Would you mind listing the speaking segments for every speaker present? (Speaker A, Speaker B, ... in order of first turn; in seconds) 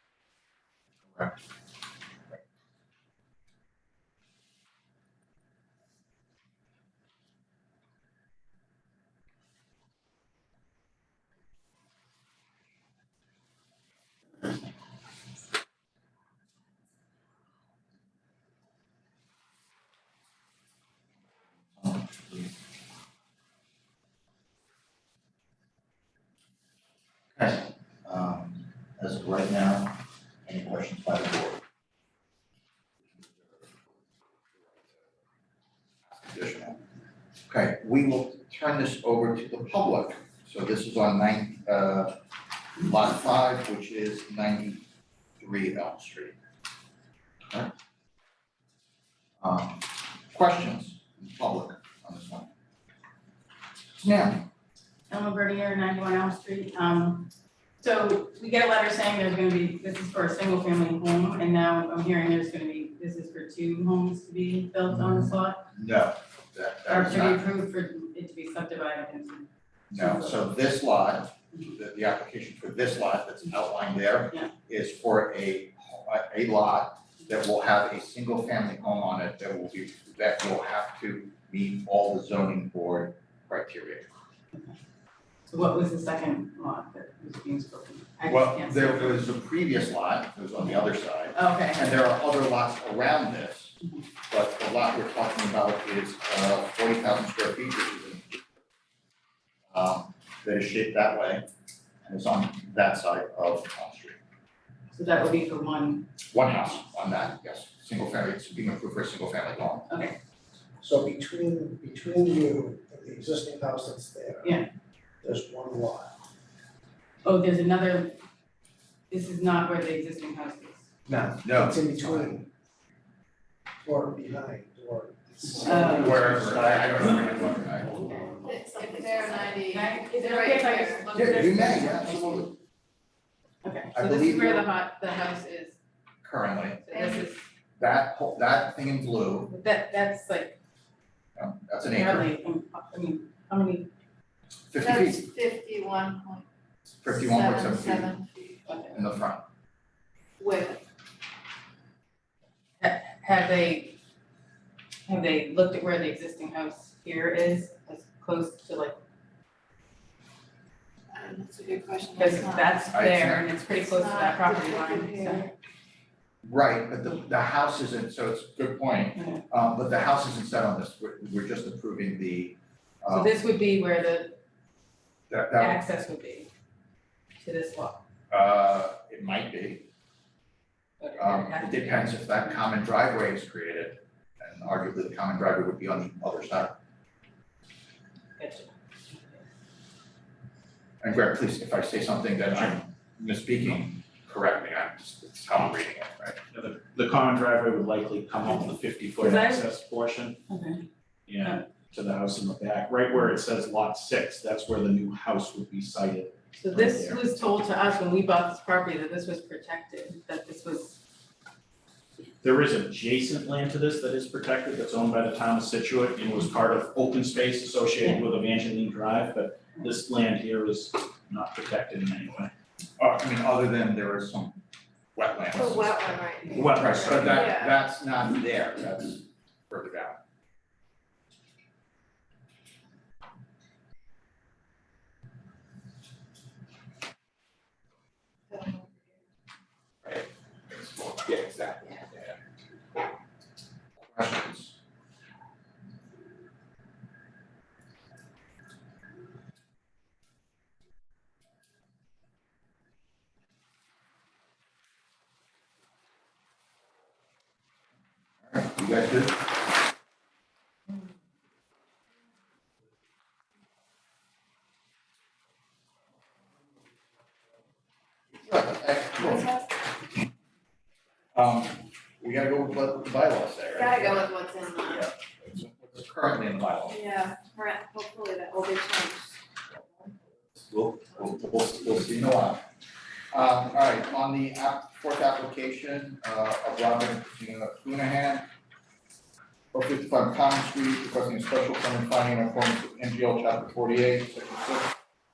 Speaker A: 21.8-22.5, 27.4-31.6, 34.7-35.0, 36.1-36.8, 37.5-42.2, 42.8-44.9, 45.4-46.4, 49.4-52.5, 54.0-54.5, 64.9-67.5, 69.9-84.1, 88.3-93.8, 94.3-98.5, 99.7-101.5, 102.0-104.2, 106.3-109.9, 121.4-122.4, 126.0-127.9, 131.1-132.6, 133.9-134.7, 136.2-136.9, 137.8-139.5, 141.3-142.3, 144.7-145.3, 147.0-148.1, 148.9-149.4, 162.9-163.5, 166.4-173.3, 175.3-175.8, 178.3-179.9, 181.2-186.8, 191.0-196.3, 223.0-224.6, 225.1-226.0, 226.6-230.2, 244.0-244.8, 258.5-259.5, 268.4-269.5, 271.3-274.3, 274.9-277.0, 280.6-282.7, 283.3-288.5, 289.7-294.9
Speaker B: 55.1-57.3, 57.8-65.6, 66.9-70.5, 85.5-89.2, 91.3-92.0, 105.0-106.1, 109.9-110.2, 117.2-118.2, 119.1-120.9, 125.6-126.4, 128.0-128.3, 129.1-132.5, 133.6-135.8, 136.8-137.4, 139.5-140.6, 141.9-143.9, 148.7-149.0, 152.8-154.0, 155.1-159.0, 162.2-165.5, 169.2-169.4, 173.1-174.4, 175.6-176.5, 177.4-178.0, 181.0-182.6, 188.4-189.4, 199.2-199.6, 200.5-200.8, 206.6-211.0
Speaker C: 110.8-114.6, 115.2-116.1, 121.1-122.5, 123.8-128.0
Speaker D: 128.4-131.1, 136.9-137.3, 144.8-146.5, 147.0-148.7, 150.4-150.8, 161.1-162.8, 163.8-165.5, 225.5-227.8, 238.5-239.2, 269.2-269.8, 273.7-275.1, 276.9-279.4
Speaker E: 196.5-200.4, 201.3-207.2, 212.4-222.5, 226.5-227.5